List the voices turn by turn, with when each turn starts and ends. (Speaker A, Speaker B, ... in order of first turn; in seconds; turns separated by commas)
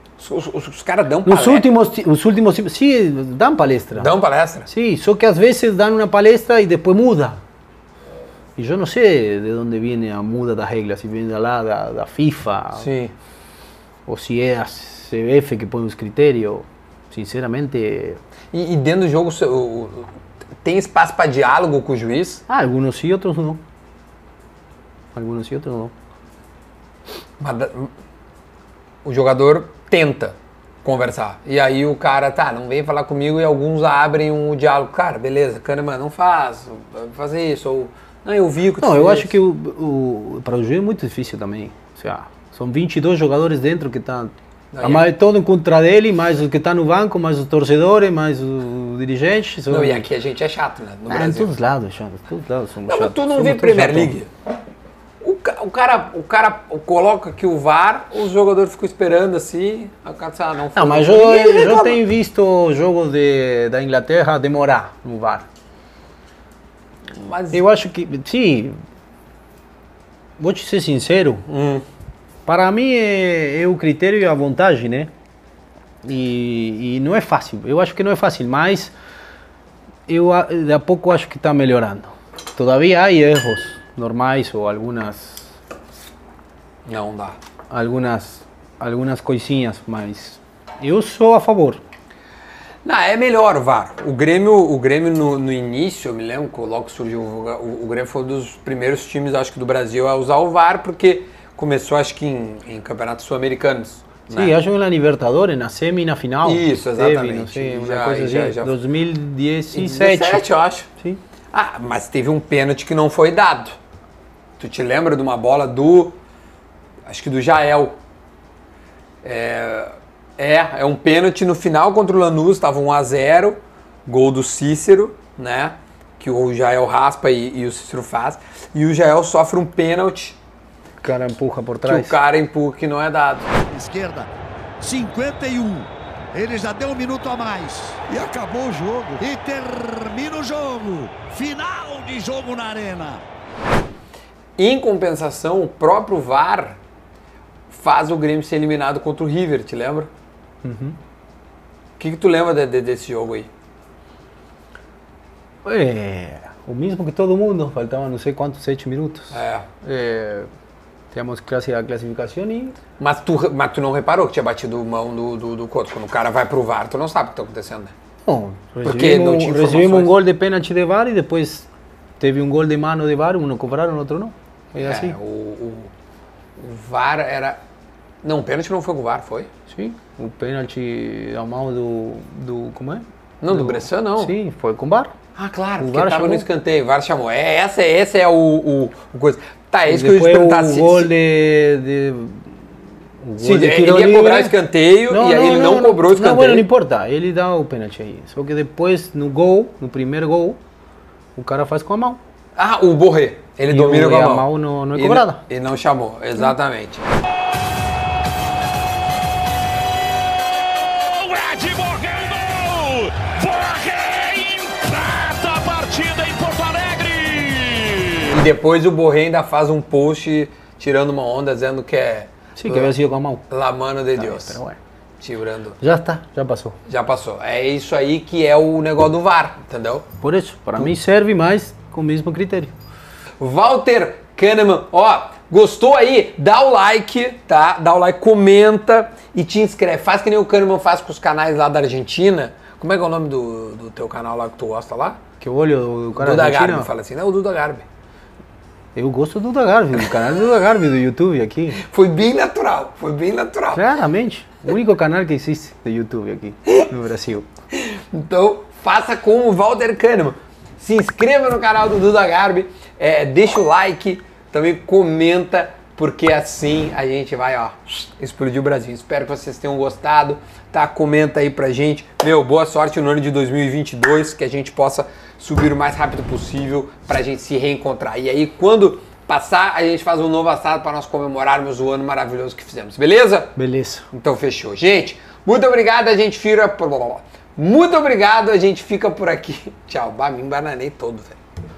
Speaker A: 0.2-1.7, Speaker B: 1.2-4.1, Speaker A: 4.0-4.7, Speaker B: 4.7-7.4, Speaker B: 8.6-12.9, Speaker A: 12.8-13.1, Speaker B: 14.1-18.2, Speaker A: 18.5-20.1, Speaker A: 20.6-22.4, Speaker B: 22.5-23.6, Speaker B: 25.1-25.9, Speaker A: 27.4-27.9, Speaker A: 29.0-39.3, Speaker B: 38.8-50.1, Speaker A: 44.7-45.1, Speaker A: 49.7-51.5, Speaker B: 51.1-54.2, Speaker A: 52.9-54.3, Speaker A: 55.2-62.0, Speaker B: 60.7-65.5, Speaker A: 67.1-67.6, Speaker B: 67.5-68.8, Speaker B: 70.4-71.4, Speaker A: 71.5-71.8, Speaker B: 72.5-75.1, Speaker B: 76.0-78.9, Speaker B: 80.1-85.5, Speaker A: 86.8-87.4, Speaker B: 87.7-91.8, Speaker A: 92.8-104.5, Speaker B: 104.3-111.2, Speaker A: 106.4-108.7, Speaker A: 109.7-110.9, Speaker A: 111.5-113.8, Speaker A: 114.6-116.2, Speaker A: 117.1-118.0, Speaker A: 119.2-130.4, Speaker B: 131.0-132.2, Speaker A: 131.8-133.5, Speaker C: 133.7-134.3, Speaker C: 134.8-143.2, Speaker A: 144.6-146.8, Speaker A: 147.7-150.1, Speaker B: 150.6-151.0, Speaker A: 152.0-153.5, Speaker B: 155.6-160.5, Speaker A: 159.3-159.7, Speaker B: 161.1-162.8, Speaker A: 163.0-167.9, Speaker B: 168.2-171.7, Speaker A: 168.8-170.1, Speaker B: 172.2-175.2, Speaker A: 174.8-175.9, Speaker A: 176.6-177.6, Speaker A: 178.2-179.5, Speaker B: 179.7-185.1, Speaker A: 183.4-184.3, Speaker A: 185.3-191.1, Speaker B: 185.8-186.5, Speaker B: 189.8-192.6, Speaker B: 193.2-194.5, Speaker A: 193.4-196.7, Speaker B: 195.1-200.6, Speaker B: 201.3-202.2, Speaker A: 202.6-207.1, Speaker B: 203.7-205.4, Speaker D: 209.8-218.3, Speaker A: 218.2-222.9, Speaker B: 222.6-223.4, Speaker A: 223.5-224.6, Speaker B: 224.2-224.8, Speaker A: 225.2-225.8, Speaker B: 225.8-226.8, Speaker A: 226.8-230.1, Speaker B: 230.2-232.7, Speaker A: 233.4-245.2, Speaker B: 245.4-246.9, Speaker A: 246.1-247.8, Speaker B: 248.9-251.8, Speaker A: 251.8-253.8, Speaker B: 253.7-257.5, Speaker A: 257.7-283.5, Speaker B: 283.6-284.1, Speaker A: 284.1-291.4